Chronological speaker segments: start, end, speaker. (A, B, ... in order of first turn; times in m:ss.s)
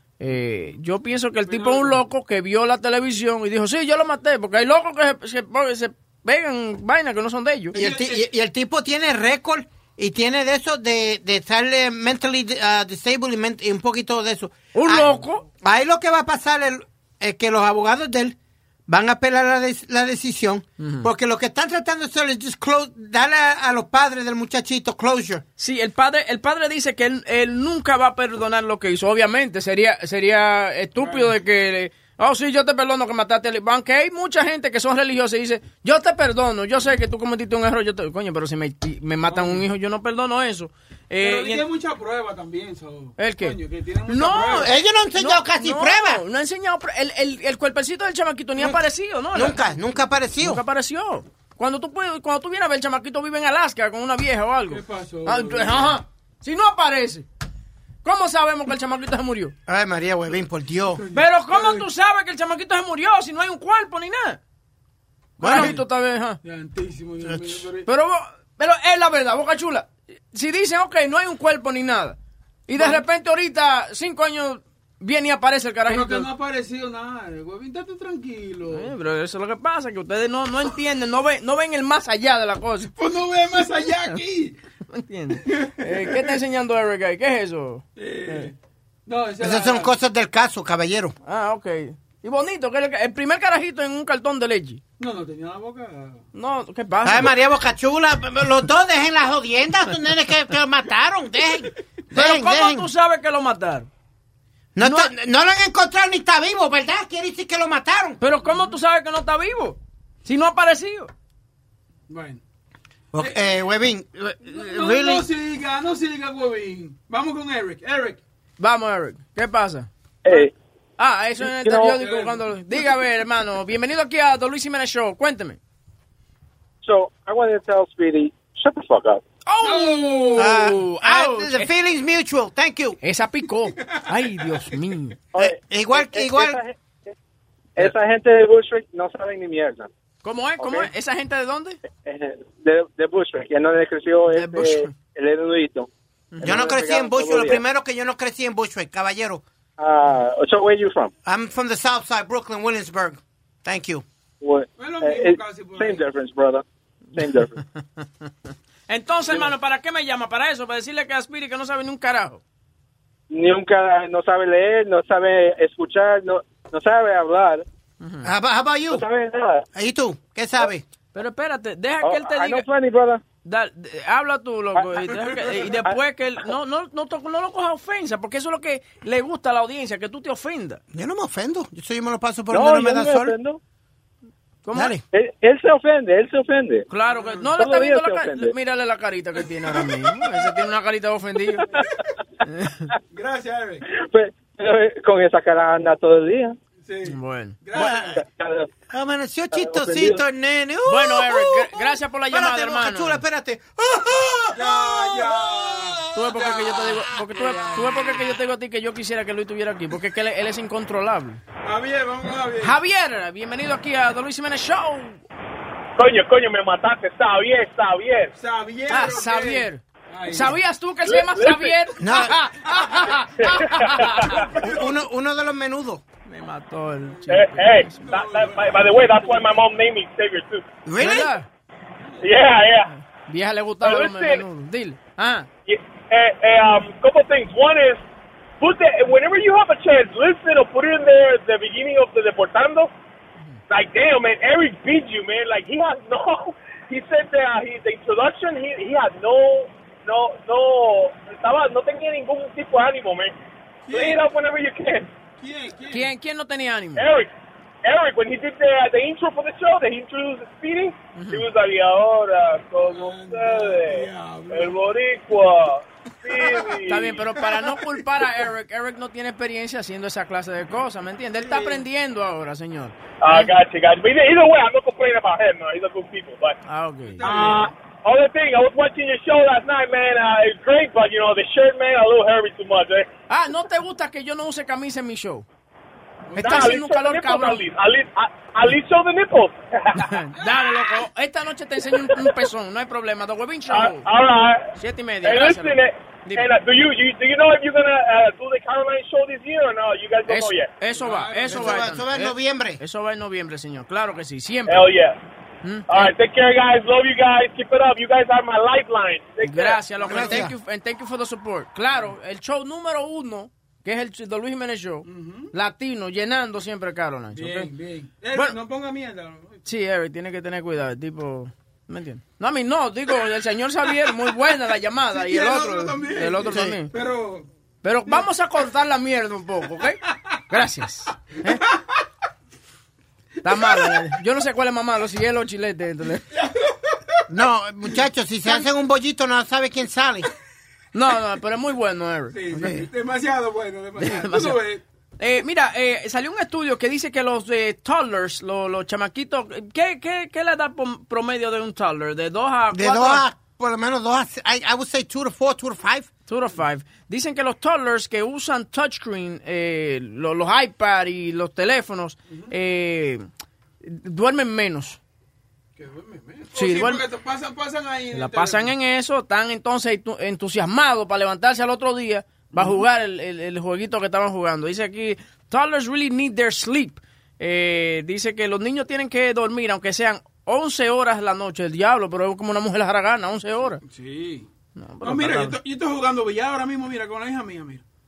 0:00.2-0:07.8 A
0:00.3-0:00.7 B
0:01.4-0:02.0 B
0:07.7-0:08.2 B
0:07.7-0:18.4 C
0:14.7-0:15.4 A
0:18.9-0:25.4 C
0:20.8-0:21.1 A
0:25.6-0:41.6 A
0:31.0-0:31.3 B
0:39.3-0:39.7 B
0:41.2-0:44.8 B
0:43.2-0:49.7 A
0:44.5-0:46.2 C
0:49.3-0:50.6 C
0:50.4-0:57.3 A
0:54.7-0:56.0 B
0:58.0-0:59.5 A
0:59.7-1:01.0 C
1:01.0-1:01.8 B
1:01.1-1:04.4 A
1:05.4-1:05.8 C
1:05.4-1:06.4 A
1:05.4-1:05.8 B
1:06.4-1:07.9 B
1:07.4-1:07.6 C
1:07.9-1:16.3 A
1:12.8-1:13.0 B
1:15.9-1:18.9 B
1:18.7-1:22.9 A
1:23.0-1:24.6 B
1:24.9-1:28.5 A
1:25.5-1:26.3 B
1:28.0-1:28.6 B
1:29.1-1:29.9 B
1:29.4-1:31.2 C
1:31.3-1:34.8 A
1:35.0-1:36.2 B
1:36.3-1:37.4 A
1:37.0-1:42.9 C
1:42.1-1:43.9 A
1:44.8-1:48.2 C
1:44.8-1:45.1 A
1:48.2-1:51.1 A
1:48.4-1:48.8 B
1:52.1-1:52.4 B
1:53.1-1:55.3 C
1:54.4-1:58.2 B
1:58.6-2:00.4 A
2:00.2-2:00.5 D
2:01.0-2:05.6 A
2:01.5-2:02.0 D
2:01.9-2:02.5 B
2:06.8-2:09.2 D
2:09.5-2:11.7 A
2:09.6-2:10.7 B
2:10.4-2:13.0 C
2:13.0-2:15.2 A
2:15.3-2:17.1 D
2:15.4-2:16.6 C
2:17.8-2:19.9 D
2:20.2-2:21.8 A
2:20.6-2:20.9 D
2:21.9-2:25.9 D
2:24.3-2:24.9 A
2:26.3-2:26.7 A
2:26.4-2:27.6 D
2:26.4-2:29.4 C
2:29.8-2:31.1 D
2:31.2-2:34.0 C
2:34.4-2:37.6 D
2:34.8-2:36.0 B
2:38.9-2:42.4 A
2:43.3-2:47.7 D
2:48.0-2:48.3 A
2:48.2-2:49.0 C
2:48.9-2:49.7 D
2:49.7-2:50.8 C
2:51.1-2:52.7 A
2:52.0-2:53.2 D
2:53.4-3:00.8 A
2:54.8-2:56.0 D
2:55.1-2:55.8 B
3:00.9-3:03.3 C
3:02.5-3:03.6 D
3:04.6-3:05.0 A
3:04.7-3:05.0 C
3:05.1-3:06.9 D
3:06.9-3:11.7 A
3:07.1-3:07.5 B
3:07.6-3:08.5 D
3:09.6-3:10.0 B
3:12.4-3:12.9 A
3:13.1-3:13.8 B
3:13.9-3:16.6 D
3:16.8-3:18.2 B
3:17.1-3:17.6 A
3:17.8-3:18.0 C
3:17.8-3:18.7 D
3:18.9-3:26.0 C
3:19.5-3:20.2 D
3:20.9-3:23.2 A
3:24.5-3:28.3 B
3:26.1-3:31.4 A
3:31.6-3:32.8 B
3:32.6-3:35.2 A
3:36.0-3:38.3 E
3:38.4-3:40.6 B
3:38.9-3:44.5 A
3:41.0-3:41.7 E
3:42.0-3:42.4 C
3:43.4-3:44.0 E
3:44.4-3:44.9 B
3:44.6-3:46.0 C
3:46.3-3:48.1 A
3:47.0-3:49.6 B
3:47.3-3:50.6 E
3:50.9-3:51.3 C
3:51.0-3:51.5 A
3:52.0-3:52.3 B
3:52.2-3:52.9 E
3:52.9-3:55.5 A
3:53.8-3:54.4 E
3:55.7-3:58.0 E
3:58.6-4:02.9 E
4:03.7-4:13.3 E
4:13.9-4:14.2 B
4:13.9-4:15.1 E
4:15.4-4:16.1 B
4:15.9-4:17.1 A
4:17.0-4:17.3 E
4:17.8-4:27.1 E
4:21.2-4:21.5 A
4:22.9-4:24.8 B
4:26.3-4:28.0 B
4:26.9-4:33.5 A
4:31.4-4:31.8 B
4:33.2-4:36.6 E
4:36.7-4:37.3 A
4:37.2-4:37.7 B
4:37.2-4:43.1 E
4:43.3-4:45.5 A
4:46.3-4:46.8 B
4:46.4-4:47.7 A
4:46.4-4:50.1 E
4:49.9-4:54.1 A
4:53.7-4:54.7 E
4:54.8-4:56.5 A
4:55.2-5:00.7 E
5:00.3-5:04.9 A
5:00.9-5:02.1 B
5:01.5-5:02.8 C
5:04.7-5:05.2 E
5:05.6-5:06.1 A
5:05.9-5:10.1 E
5:09.4-5:17.7 A
5:10.1-5:10.5 B
5:10.1-5:10.5 C
5:15.0-5:15.5 B
5:17.3-5:19.6 B
5:19.6-5:26.9 A
5:25.1-5:27.5 B
5:26.5-5:26.8 C
5:27.8-5:31.6 A
5:30.1-5:30.4 B
5:31.4-5:32.0 B
5:33.4-5:36.3 A
5:33.4-5:34.0 B
5:36.3-5:37.2 B
5:37.3-5:40.3 C
5:40.9-5:42.4 A
5:42.3-5:44.8 B
5:42.6-5:42.8 C
5:44.0-5:44.6 A
5:45.2-5:53.3 A
5:52.7-5:56.1 C
5:56.3-6:03.2 A
6:03.8-6:05.0 A
6:05.8-6:08.7 B
6:06.6-6:07.0 A
6:08.1-6:23.8 A
6:12.5-6:12.8 B
6:23.8-6:24.5 B
6:24.8-6:25.6 A
6:25.0-6:27.8 B